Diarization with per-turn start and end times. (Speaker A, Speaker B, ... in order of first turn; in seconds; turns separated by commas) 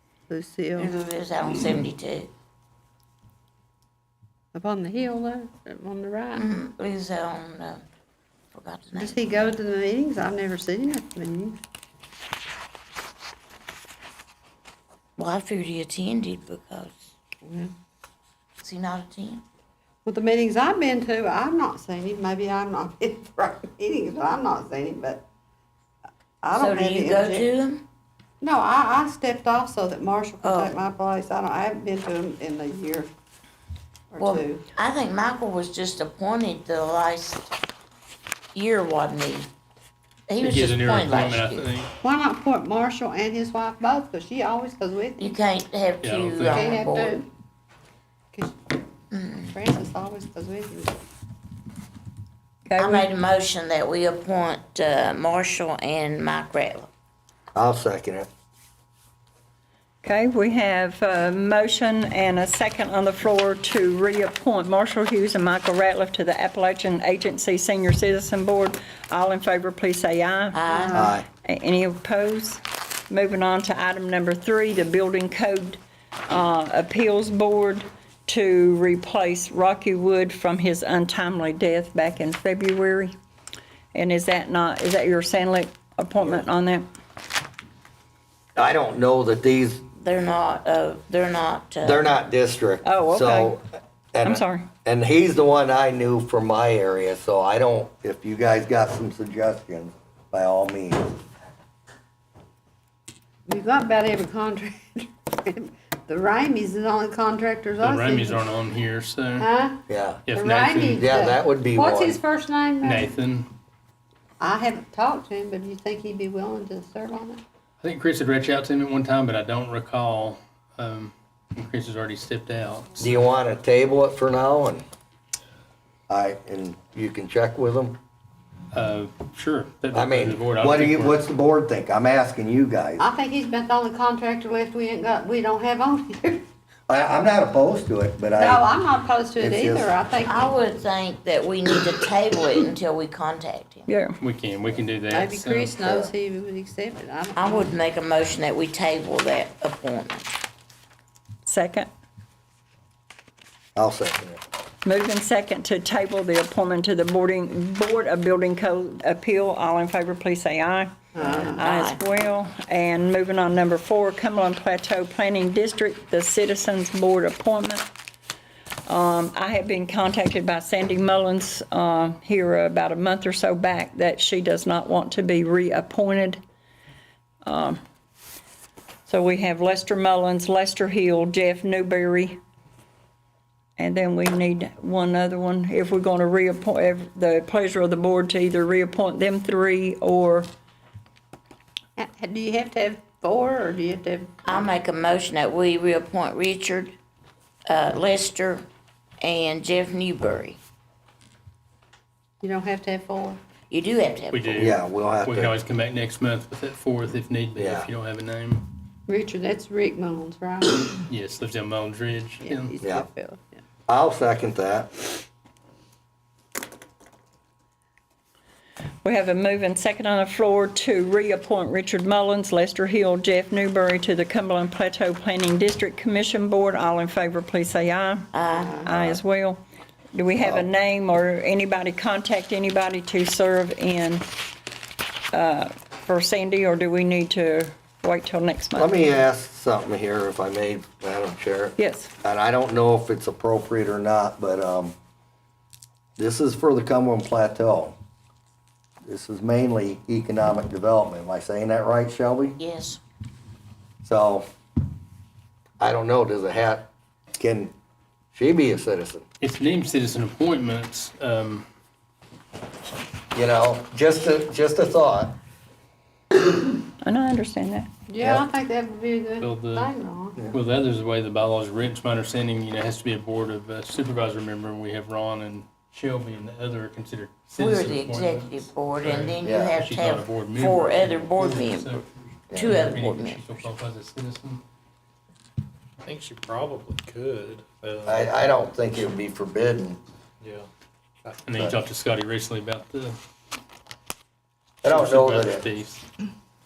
Speaker A: 0.3-0.9, Speaker B: 0.8-2.3, Speaker A: 4.5-6.4, Speaker B: 6.3-7.8, Speaker B: 8.5-9.6, Speaker A: 9.0-11.6, Speaker B: 15.2-17.1, Speaker A: 17.4-17.7, Speaker B: 18.6-19.4, Speaker A: 20.0-25.2, Speaker A: 26.4-27.5, Speaker B: 26.5-27.8, Speaker A: 28.4-33.1, Speaker B: 30.4-30.7, Speaker A: 34.1-34.6, Speaker B: 34.2-37.5, Speaker B: 38.5-39.5, Speaker B: 40.3-41.7, Speaker C: 40.4-41.9, Speaker A: 42.0-45.3, Speaker B: 45.2-47.2, Speaker C: 46.0-46.7, Speaker A: 46.4-47.2, Speaker B: 49.1-49.5, Speaker A: 49.5-51.0, Speaker D: 52.7-53.1, Speaker B: 52.8-56.9, Speaker E: 57.5-58.3, Speaker D: 60.0-70.6, Speaker B: 70.5-71.1, Speaker A: 70.7-71.0, Speaker E: 70.9-71.3, Speaker D: 71.4-83.1, Speaker D: 83.9-86.8, Speaker E: 88.5-89.8, Speaker B: 90.0-92.1, Speaker E: 91.8-93.6, Speaker D: 92.8-93.6, Speaker E: 94.1-101.1, Speaker D: 94.2-94.7, Speaker A: 103.5-108.5, Speaker C: 107.8-109.5, Speaker A: 109.4-113.1, Speaker E: 109.9-110.2, Speaker C: 110.2-111.1, Speaker E: 110.9-112.2, Speaker C: 112.8-113.5, Speaker A: 114.4-117.4, Speaker C: 117.8-123.1, Speaker E: 123.0-124.8, Speaker E: 126.1-128.0, Speaker C: 128.7-131.2, Speaker E: 129.9-133.1, Speaker A: 133.0-136.5, Speaker E: 136.9-138.7, Speaker A: 138.3-140.6, Speaker E: 139.4-139.9, Speaker B: 140.2-143.9, Speaker D: 143.9-144.2, Speaker C: 144.2-145.8, Speaker A: 145.1-147.8, Speaker E: 145.8-146.1, Speaker B: 147.3-150.3, Speaker D: 151.4-151.9, Speaker E: 153.8-154.4, Speaker D: 154.8-160.9, Speaker A: 161.1-161.6, Speaker E: 161.2-161.5, Speaker B: 161.4-162.0, Speaker D: 161.5-167.8, Speaker D: 168.9-176.4, Speaker D: 177.4-177.8, Speaker D: 179.1-182.4, Speaker D: 183.8-190.5, Speaker A: 191.9-194.7, Speaker B: 194.4-196.9, Speaker B: 197.7-198.7, Speaker B: 199.2-200.6, Speaker A: 202.4-203.4, Speaker B: 203.7-204.7, Speaker C: 204.3-208.6, Speaker E: 204.6-205.5, Speaker E: 207.6-207.9, Speaker A: 209.1-211.0, Speaker C: 211.1-212.7, Speaker A: 212.4-213.6, Speaker E: 213.9-214.9, Speaker D: 219.0-228.3, Speaker B: 228.3-228.9, Speaker A: 228.6-228.9, Speaker D: 228.8-229.6, Speaker D: 230.1-234.2, Speaker E: 230.4-230.6, Speaker D: 235.3-238.9, Speaker E: 238.8-244.9, Speaker D: 241.8-242.1, Speaker E: 246.2-247.9, Speaker E: 249.0-252.6, Speaker B: 252.6-253.0, Speaker E: 254.0-254.5, Speaker E: 255.8-257.7, Speaker E: 258.3-259.2, Speaker C: 259.4-261.6, Speaker E: 263.3-265.4, Speaker D: 267.0-267.9, Speaker A: 268.1-270.4, Speaker E: 268.2-268.4, Speaker C: 269.4-269.9, Speaker C: 270.5-284.6, Speaker B: 277.6-282.0, Speaker E: 279.4-279.8, Speaker B: 282.5-283.5, Speaker F: 286.0-288.3, Speaker E: 288.0-290.0, Speaker F: 290.4-290.7, Speaker C: 291.4-293.2, Speaker E: 294.8-295.7, Speaker C: 294.8-296.0